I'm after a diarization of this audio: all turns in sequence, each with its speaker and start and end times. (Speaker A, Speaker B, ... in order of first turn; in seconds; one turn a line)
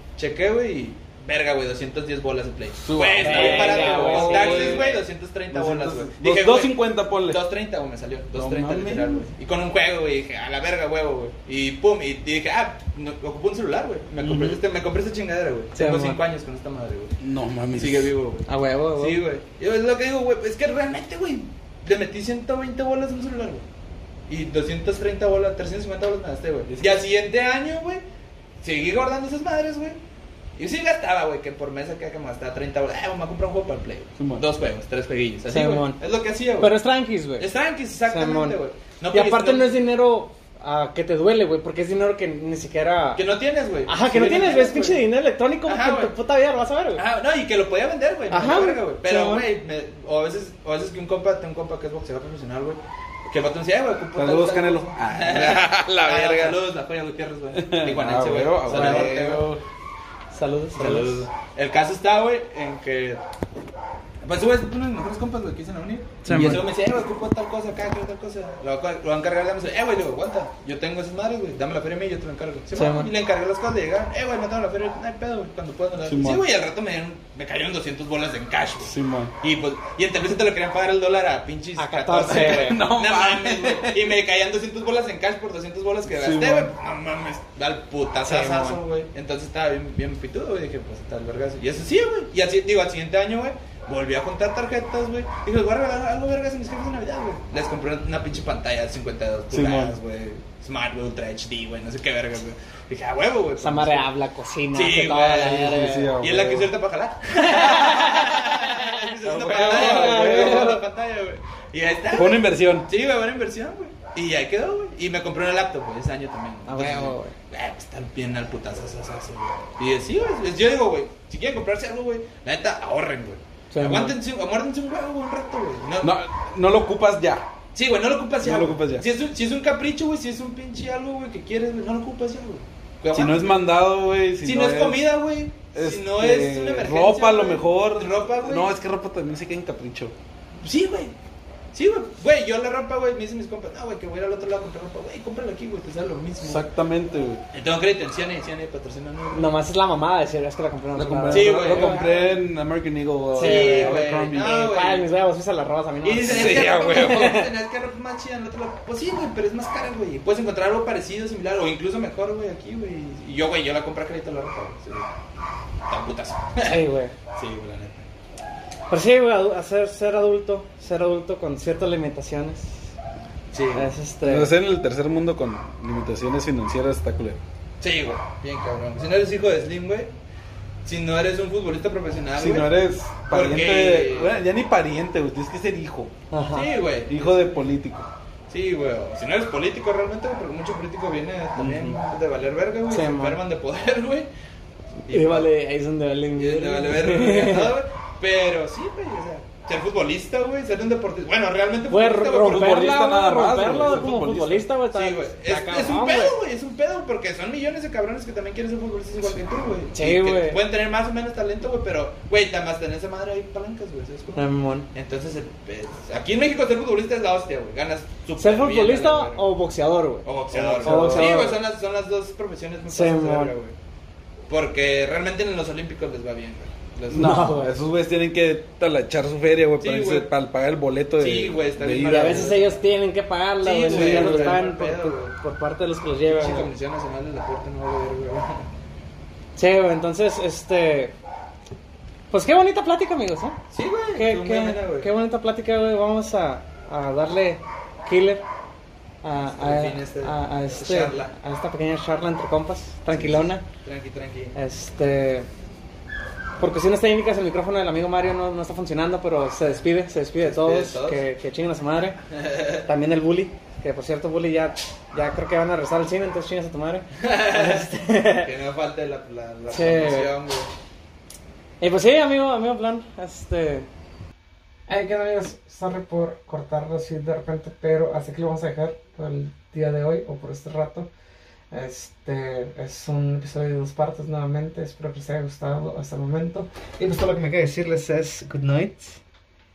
Speaker A: 0.2-17.1
Speaker B: 2.8-7.4
Speaker C: 3.2-5.0
Speaker B: 8.3-9.3
Speaker B: 14.2-14.6
Speaker C: 15.8-16.2
Speaker B: 17.2-18.1
Speaker A: 17.7-23.6
Speaker C: 18.5-19.2
Speaker A: 24.3-28.0
Speaker B: 26.7-27.0
Speaker A: 28.6-30.0
Speaker A: 30.6-36.8
Speaker B: 34.2-34.4
Speaker C: 35.5-36.0
Speaker C: 36.6-37.5
Speaker A: 37.4-39.8
Speaker C: 38.1-38.6
Speaker C: 39.1-43.2
Speaker A: 43.1-45.1
Speaker C: 43.9-47.0
Speaker B: 44.1-44.4
Speaker A: 45.7-46.1
Speaker A: 47.0-59.5
Speaker C: 48.3-49.5
Speaker B: 54.1-56.6
Speaker B: 57.5-59.6
Speaker C: 58.7-59.1
Speaker C: 60.3-61.3
Speaker A: 60.8-63.2
Speaker A: 64.2-104.1
Speaker C: 66.2-66.6
Speaker B: 66.3-66.6
Speaker C: 72.8-73.1
Speaker B: 76.0-76.4
Speaker B: 78.8-79.3
Speaker C: 81.8-82.8
Speaker B: 82.2-84.2
Speaker B: 86.1-86.7
Speaker C: 88.2-88.8
Speaker B: 99.5-100.0
Speaker C: 103.6-106.2
Speaker A: 104.7-126.2
Speaker B: 105.4-106.7
Speaker C: 107.3-109.0
Speaker B: 109.2-110.7
Speaker C: 109.5-110.8
Speaker B: 112.1-112.9
Speaker C: 116.7-117.3
Speaker C: 123.7-124.1
Speaker B: 126.0-127.5
Speaker A: 127.7-133.5
Speaker B: 128.4-129.1
Speaker B: 133.1-135.0
Speaker A: 134.4-138.7
Speaker B: 135.8-140.2
Speaker A: 140.6-141.1
Speaker A: 141.7-146.7
Speaker B: 146.4-147.4
Speaker A: 147.5-149.6
Speaker C: 149.3-152.0
Speaker B: 150.9-154.5
Speaker A: 151.3-152.4
Speaker C: 153.3-157.5
Speaker A: 153.4-155.1
Speaker A: 156.0-165.1
Speaker B: 156.2-157.3
Speaker A: 165.9-166.8
Speaker C: 166.6-167.1
Speaker A: 167.3-168.1
Speaker C: 168.9-172.7
Speaker A: 173.5-173.9
Speaker C: 173.7-174.5
Speaker B: 174.2-177.4
Speaker A: 177.8-180.1
Speaker A: 180.8-182.7
Speaker B: 182.4-186.1
Speaker A: 183.3-184.4
Speaker C: 186.3-186.7
Speaker A: 186.5-187.5
Speaker B: 187.1-188.1
Speaker A: 188.5-194.3
Speaker B: 191.6-192.0
Speaker C: 192.9-193.4
Speaker A: 195.1-195.5
Speaker C: 195.1-197.8
Speaker A: 196.4-202.9
Speaker C: 201.9-206.3
Speaker B: 202.5-204.7
Speaker A: 204.9-219.5
Speaker B: 209.2-209.8
Speaker C: 209.9-210.6
Speaker C: 214.3-214.9
Speaker C: 218.4-221.6
Speaker A: 220.2-223.8
Speaker B: 220.6-221.5
Speaker C: 222.9-223.5
Speaker A: 224.5-227.4
Speaker C: 227.1-227.7
Speaker B: 227.1-232.5
Speaker A: 229.8-230.3
Speaker A: 231.2-232.8
Speaker C: 232.1-236.7
Speaker A: 233.6-235.3
Speaker B: 233.9-234.6
Speaker A: 236.3-238.7
Speaker C: 239.6-241.1
Speaker C: 242.3-243.6
Speaker A: 243.7-245.1
Speaker C: 244.2-248.4
Speaker C: 249.2-253.7
Speaker A: 249.5-251.3
Speaker A: 253.1-254.6
Speaker C: 254.6-255.5
Speaker C: 256.6-262.2
Speaker A: 260.4-261.2
Speaker A: 262.4-262.8
Speaker C: 262.9-268.5
Speaker A: 267.2-270.7
Speaker C: 269.7-270.3
Speaker C: 271.8-273.9
Speaker C: 274.9-281.1
Speaker C: 281.7-289.2